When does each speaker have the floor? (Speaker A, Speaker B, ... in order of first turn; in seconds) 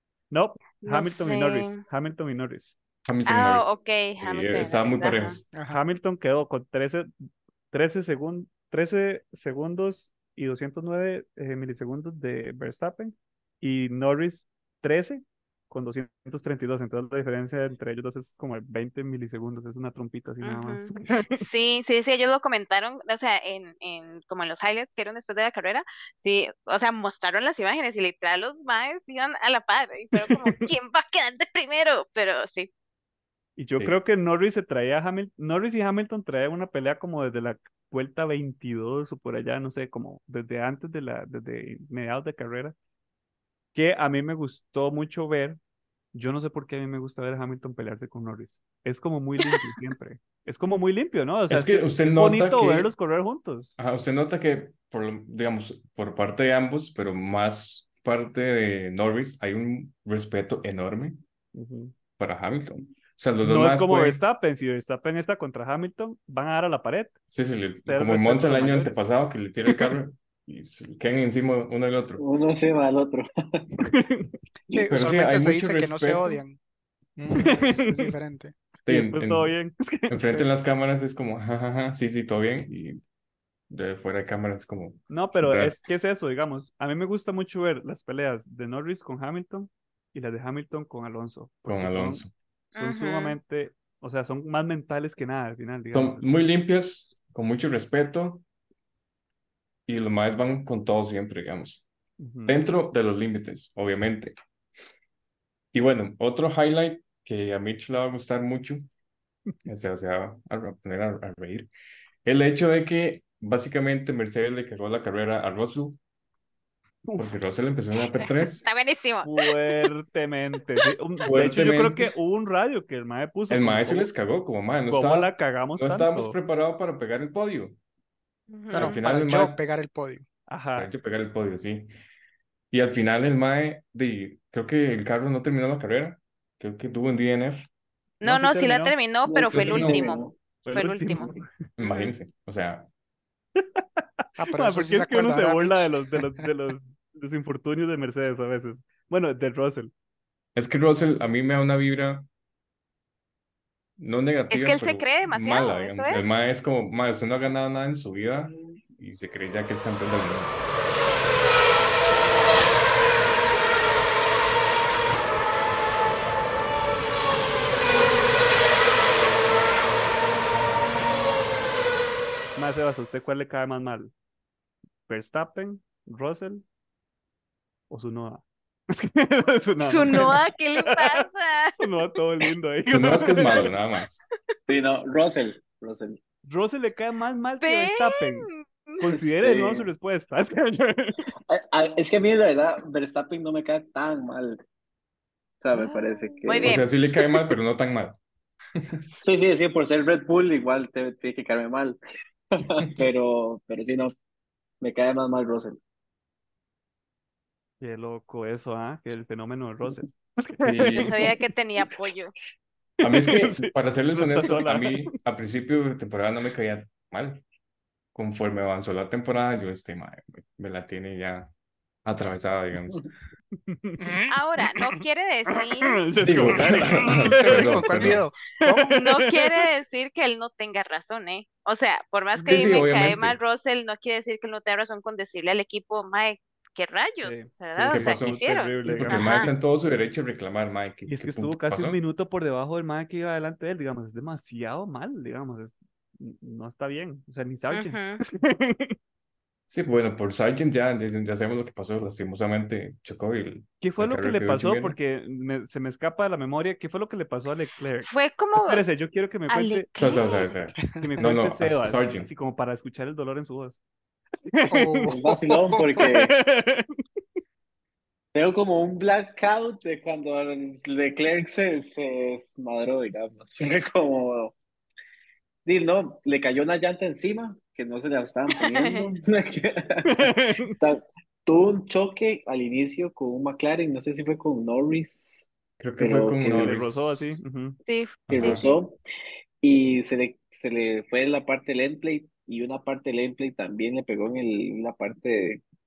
Speaker A: 0.3-2.8, 5.7-21.4, 30.2-30.7, 33.6-42.7, 43.7-45.6, 46.1-53.8, 61.5-61.9, 63.4-67.2, 67.8-69.1, 69.7-70.0, 73.8-74.3, 77.4-78.1, 78.8-80.2, 85.1-96.5, 102.2-102.6, 117.0-117.3, 119.2-124.1, 124.9-126.4, 130.5-130.9, 138.2-138.9, 139.6-140.0, 140.6-141.5, 144.5-149.9, 172.6-174.1, 175.1-176.6, 177.9-181.2, 181.8-183.7, 186.4-191.2, 207.8-211.3, 213.0-215.1, 223.7-224.7, 225.5-229.6, 237.2-239.5, 241.1-248.9, 253.8-259.9, 261.1-263.8, 264.5-265.2, 265.9-267.0, 280.1-280.7, 286.4-287.8
Speaker B: 0.8-1.8, 3.2-5.4, 20.4-32.7, 92.7-93.4, 118.0-119.9, 128.5-129.0, 138.2-142.1, 154.5-156.4, 179.9-181.9, 187.6-189.0, 195.7-196.8, 210.9-212.3, 224.3-226.0, 228.9-239.5, 247.7-248.2, 258.0-258.9, 259.5-260.5, 278.6-279.1, 287.9-288.7
Speaker C: 3.0-5.4, 51.5-52.9, 53.8-61.2, 62.2-64.2, 67.3-72.2, 74.9-76.4, 77.2-77.8, 78.8-79.5, 80.1-83.0, 83.7-85.7, 91.7-92.3, 95.9-98.4, 99.9-101.8, 102.5-104.4, 105.7-108.9, 109.6-111.7, 112.2-116.0, 117.2-118.7, 121.2-122.1, 123.5-127.8, 128.8-129.6, 130.8-131.9, 132.7-137.7, 139.5-139.8, 141.8-142.9, 150.6-152.3, 154.0-160.6, 182.9-184.2, 196.6-198.2, 198.8-199.1, 210.6-211.2, 213.0-217.4, 218.1-221.5, 222.0-223.1, 226.2-228.2, 232.5-233.4, 237.9-242.0, 249.7-255.0, 260.0-262.3, 285.8-287.4, 288.3-288.7
Speaker D: 5.5-5.8, 74.7-76.6, 77.3-78.6, 80.2-80.5, 128.7-130.2, 144.4-146.5, 224.0-224.4, 226.7-229.0, 260.9-261.4, 264.7-266.0
Speaker E: 72.2-73.7, 139.2-140.4, 184.7-186.2, 189.1-189.9, 191.5-194.6, 195.6-196.8, 199.2-202.0, 202.5-204.1, 204.8-205.8, 265.1-266.3, 268.3-274.6, 275.6-286.7, 288.3-289.0, 289.6-295.6